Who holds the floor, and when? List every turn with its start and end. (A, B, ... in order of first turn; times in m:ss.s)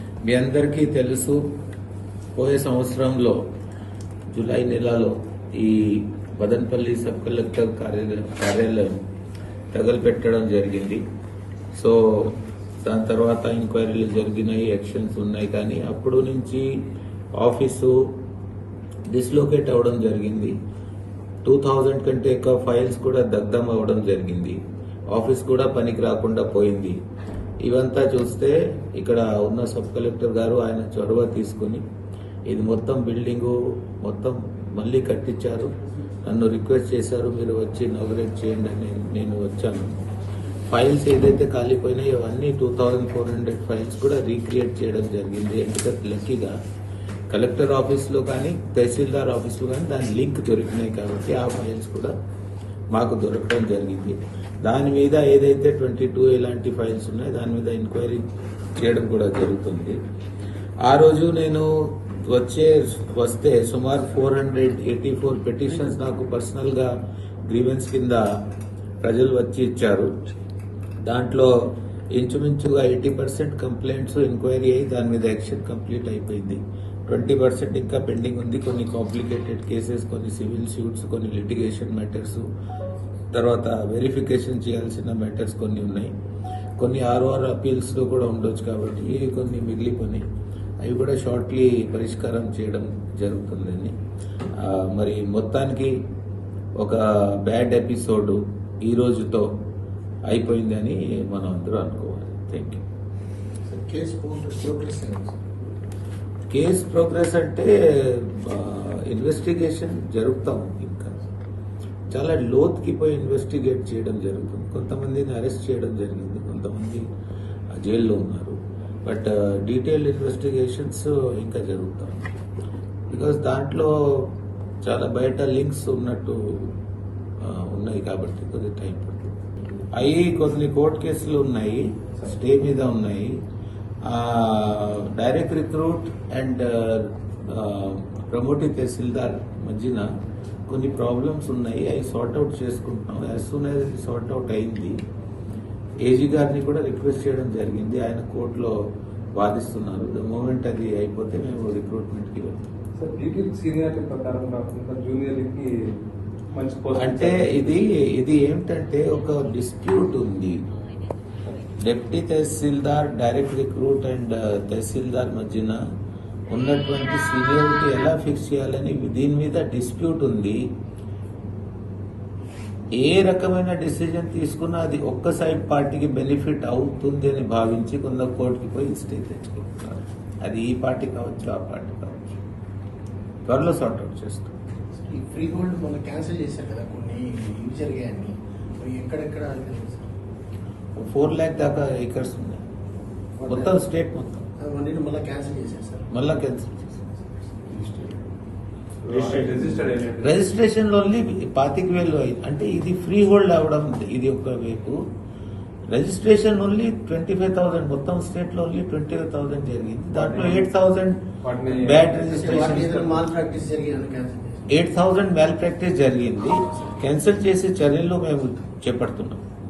0:00.2-0:01.4 A
0:02.4-0:03.4 A
0:04.3-0:09.0 A
0:09.7-0:11.0 A
0:11.7-0:16.7 A
0:17.4-0:18.0 A
0:19.1-0:20.6 A
0:21.4-0:24.6 A
0:25.1-0:27.0 A
0:27.6-0:31.8 A
0:32.5-0:40.0 A
0:40.7-0:46.6 A
0:47.3-0:52.1 A
0:52.9-1:00.0 A
1:00.8-1:06.9 A
1:07.5-1:08.2 A
1:09.0-1:10.1 A
1:11.0-1:22.5 A
1:23.3-1:26.1 A
1:26.8-1:30.3 A
1:30.8-1:33.9 A
1:34.6-1:36.0 A
1:36.8-1:39.5 A
1:40.3-1:42.8 A
1:43.7-1:45.4 B
1:46.5-1:51.2 A
1:52.1-1:57.0 A
1:57.7-2:02.4 A
2:03.1-2:06.7 A
2:07.4-2:13.4 A
2:14.1-2:20.1 A
2:20.7-2:25.0 A
2:26.0-2:28.7 A
2:29.4-2:32.6 A
2:33.0-2:36.0 C
2:36.5-2:37.7 C
2:36.9-2:40.6 A
2:41.8-2:45.8 A
2:46.5-2:50.6 A
2:53.0-3:02.4 A
3:03.5-3:04.6 A
3:05.0-3:10.1 B
3:11.0-3:12.6 A
3:13.4-3:13.8 B
3:13.5-3:14.4 A
3:14.6-3:16.1 B
3:16.1-3:17.2 A
3:17.4-3:17.7 B
3:17.8-3:18.1 C
3:19.0-3:20.4 C
3:19.1-3:25.0 A
3:25.9-3:33.2 A
3:30.2-3:30.7 C
3:31.4-3:32.2 C
3:32.3-3:34.7 B
3:34.7-3:39.4 A